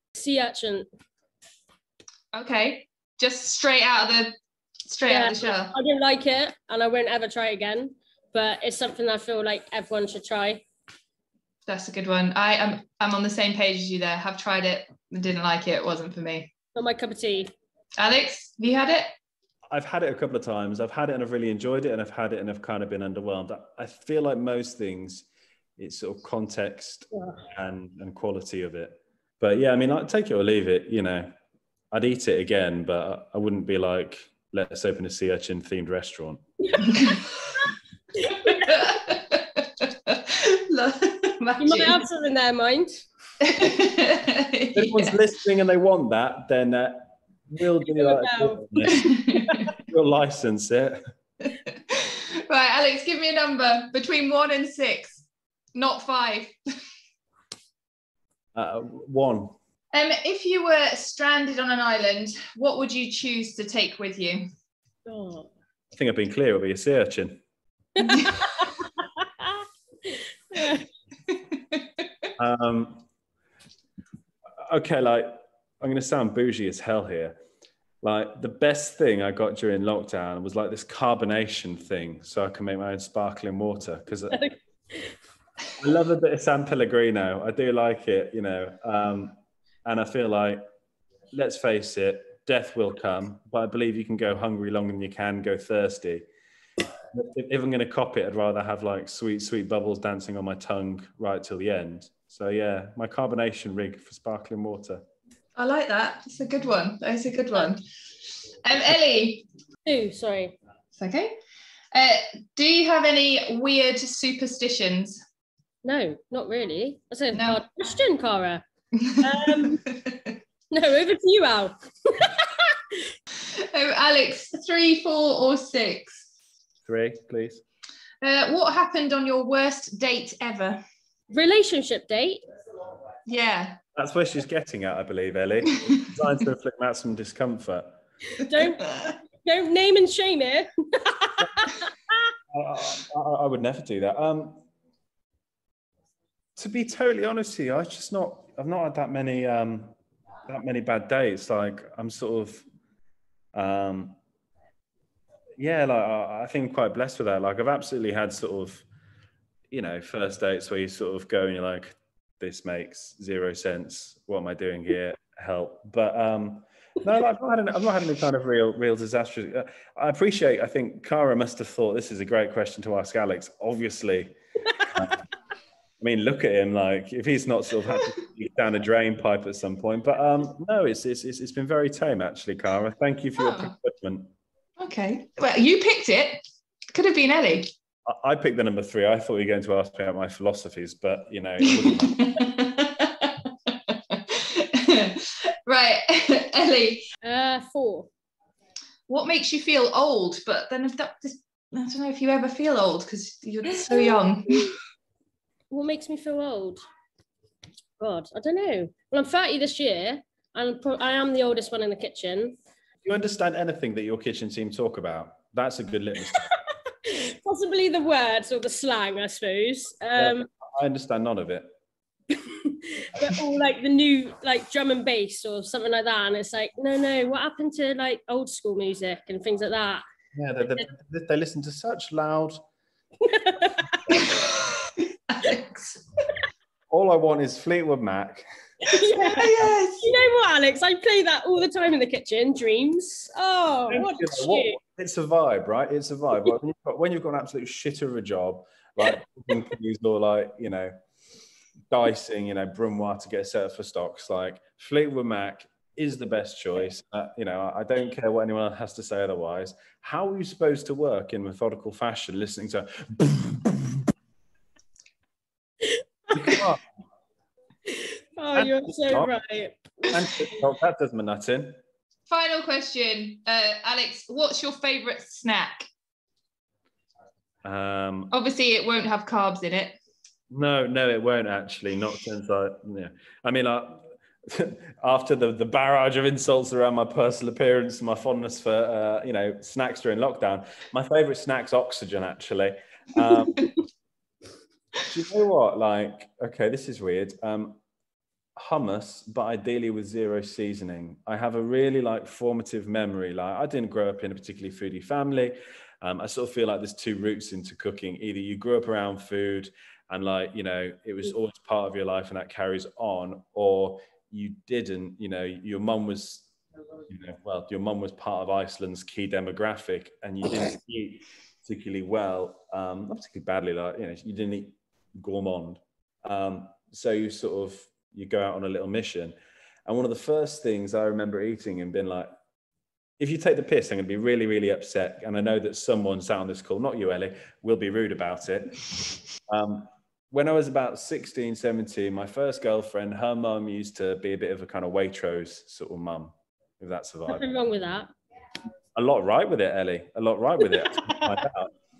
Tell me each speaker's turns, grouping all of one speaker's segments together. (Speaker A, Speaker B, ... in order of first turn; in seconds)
Speaker A: 0.1-0.9, 5.1-10.6, 16.7-17.5, 38.2-38.7, 41.6-43.0, 47.8-49.7, 65.1-65.5, 68.0-68.6, 69.4-70.8, 84.3-85.1, 109.8-110.5, 115.8-118.6, 119.2-119.8, 120.7-123.0, 131.3-132.4, 138.4-138.9, 139.4-141.9, 197.2-198.1, 203.9-204.7, 205.7-206.8, 208.0-212.5, 217.0-220.5, 222.4-230.0, 233.2-234.1, 238.8-244.8, 267.9-270.2, 347.3-348.1
Speaker B: 2.3-4.3, 4.9-5.7, 11.7-16.5, 18.0-19.1, 38.6-42.0, 43.4-45.2, 49.0-49.5, 51.7-56.5, 59.9-64.5, 68.0-68.4, 105.5-107.8, 108.6-109.4, 111.0-111.3, 111.9-115.2, 117.3-117.6, 119.0-120.1, 123.5-126.2, 128.2-130.8, 133.2-133.8, 183.4-183.7, 184.8-186.4, 186.9-187.7, 191.7-197.1, 199.1-204.7, 239.2-240.1, 272.3-275.9, 278.3-279.9
Speaker C: 19.7-25.3, 25.8-31.3, 31.9-36.4, 44.7-49.1, 49.8-51.0, 58.5-59.6, 65.9-67.4, 72.4-73.0, 74.6-77.4, 78.0-84.4, 85.8-90.6, 91.3-96.2, 97.1-105.0, 126.8-127.6, 133.9-138.0, 142.5-144.6, 146.6-149.9, 150.5-152.6, 153.5-154.2, 155.6-158.8, 159.7-175.2, 176.0-184.3, 188.1-192.3, 213.0-216.4, 220.1-221.7, 230.3-232.6, 236.9-238.4, 243.9-250.9, 251.9-264.0, 266.3-266.8, 268.5-269.3, 270.0-271.8, 277.6-278.3, 280.5-293.7, 295.0-297.8, 298.6-316.5, 317.1-329.3, 329.9-332.3, 333.2-347.4, 348.9-351.7